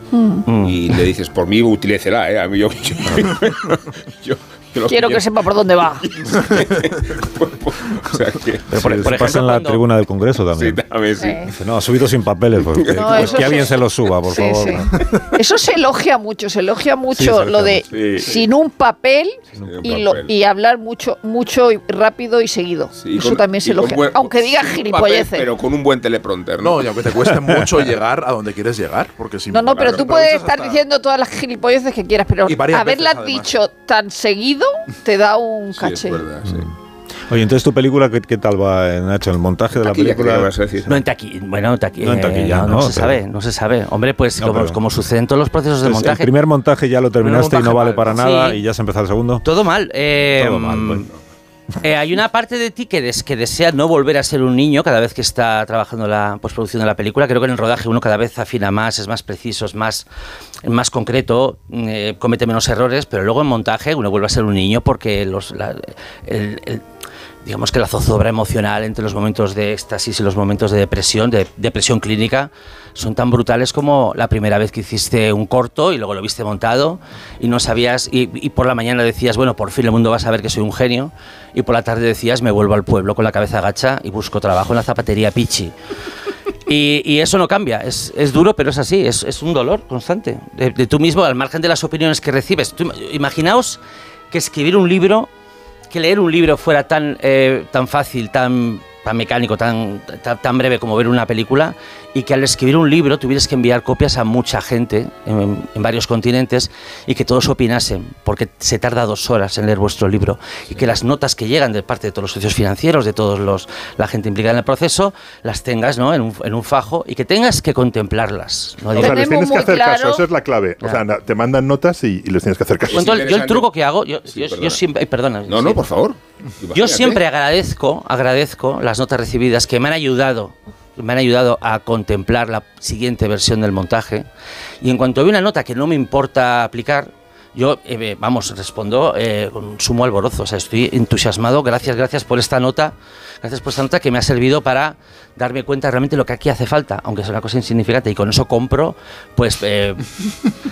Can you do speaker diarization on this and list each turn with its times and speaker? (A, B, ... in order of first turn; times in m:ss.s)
0:00.1-0:00.5 A
0:00.5-0:00.8 B
0:00.6-0:05.3 C
0:04.9-0:06.1 A
0:06.0-0:08.9 C
0:08.7-0:09.8 B
0:08.7-0:10.9 D
0:10.6-0:11.4 C
0:11.2-0:11.5 A
0:11.4-0:14.9 D
0:12.8-0:13.6 C
0:12.9-0:25.5 A
0:17.1-0:17.8 D
0:17.9-0:18.3 C
0:19.6-0:19.9 D
0:19.6-0:20.3 C
0:23.0-0:26.9 C
0:26.6-0:30.8 E
0:29.5-0:36.2 A
0:29.7-0:30.1 C
0:32.4-0:33.5 E
0:35.8-0:36.7 C
0:36.4-0:36.7 D
0:37.3-0:40.9 D
0:39.7-0:40.9 C
0:40.9-0:46.3 B
0:42.0-0:43.2 D
0:44.4-0:44.8 D
0:45.8-0:49.4 D
0:47.2-0:48.6 B
0:49.4-0:51.1 B
0:50.3-0:51.1 D
0:51.8-1:00.0 B
1:00.6-1:06.8 B
1:07.4-1:25.7 B
1:26.7-1:33.8 B
1:34.3-1:35.3 B
1:35.9-1:59.2 B
1:58.9-2:03.2 F
1:59.0-2:00.3 A
2:02.9-2:03.7 C
2:02.9-2:05.8 B
2:04.3-2:04.8 C
2:05.5-2:07.2 C
2:06.7-2:14.2 B
2:14.8-2:30.1 B